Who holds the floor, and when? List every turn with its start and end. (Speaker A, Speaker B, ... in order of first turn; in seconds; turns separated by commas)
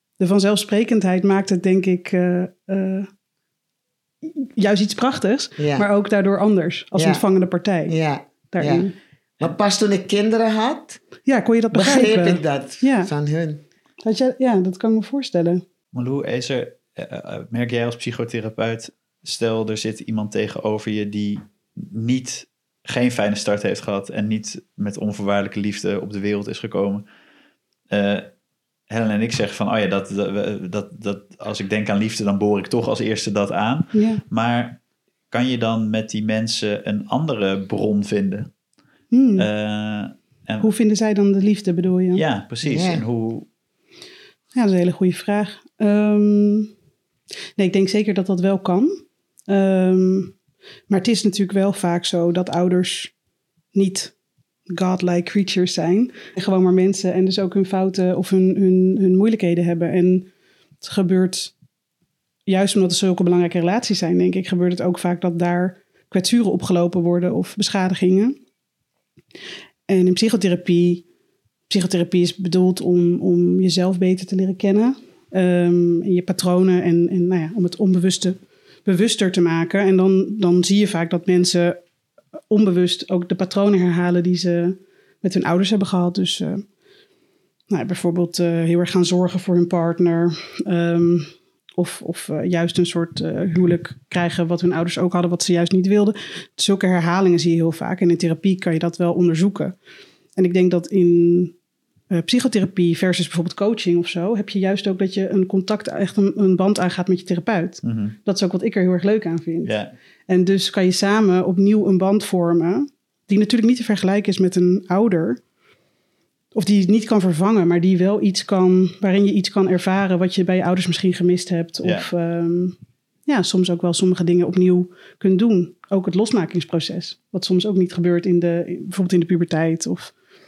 Speaker A: 0.2-3.1, Speaker A: 4.2-7.9, Speaker B: 5.6-5.9, Speaker B: 6.9-7.2, Speaker B: 7.8-8.9, Speaker A: 8.5-8.9, Speaker B: 9.4-11.0, Speaker A: 11.2-13.1, Speaker B: 11.7-13.6, Speaker A: 14.0-15.6, Speaker C: 15.9-27.0, Speaker C: 27.9-28.3, Speaker C: 28.9-34.8, Speaker A: 33.9-34.2, Speaker C: 35.3-38.5, Speaker A: 39.1-39.5, Speaker C: 39.4-40.7, Speaker A: 40.6-42.2, Speaker C: 42.1-43.5, Speaker B: 42.6-43.0, Speaker A: 44.5-46.7, Speaker A: 47.5-50.3, Speaker A: 50.9-53.1, Speaker A: 53.7-54.1, Speaker A: 54.7-60.3, Speaker A: 60.8-61.5, Speaker A: 62.5-68.4, Speaker A: 69.9-71.0, Speaker A: 71.7-81.8, Speaker A: 82.5-86.6, Speaker A: 87.7-99.8, Speaker A: 100.3-101.5, Speaker A: 102.1-109.7, Speaker C: 107.8-108.2, Speaker C: 109.6-109.9, Speaker A: 110.3-115.4, Speaker A: 116.5-130.1, Speaker C: 121.8-122.1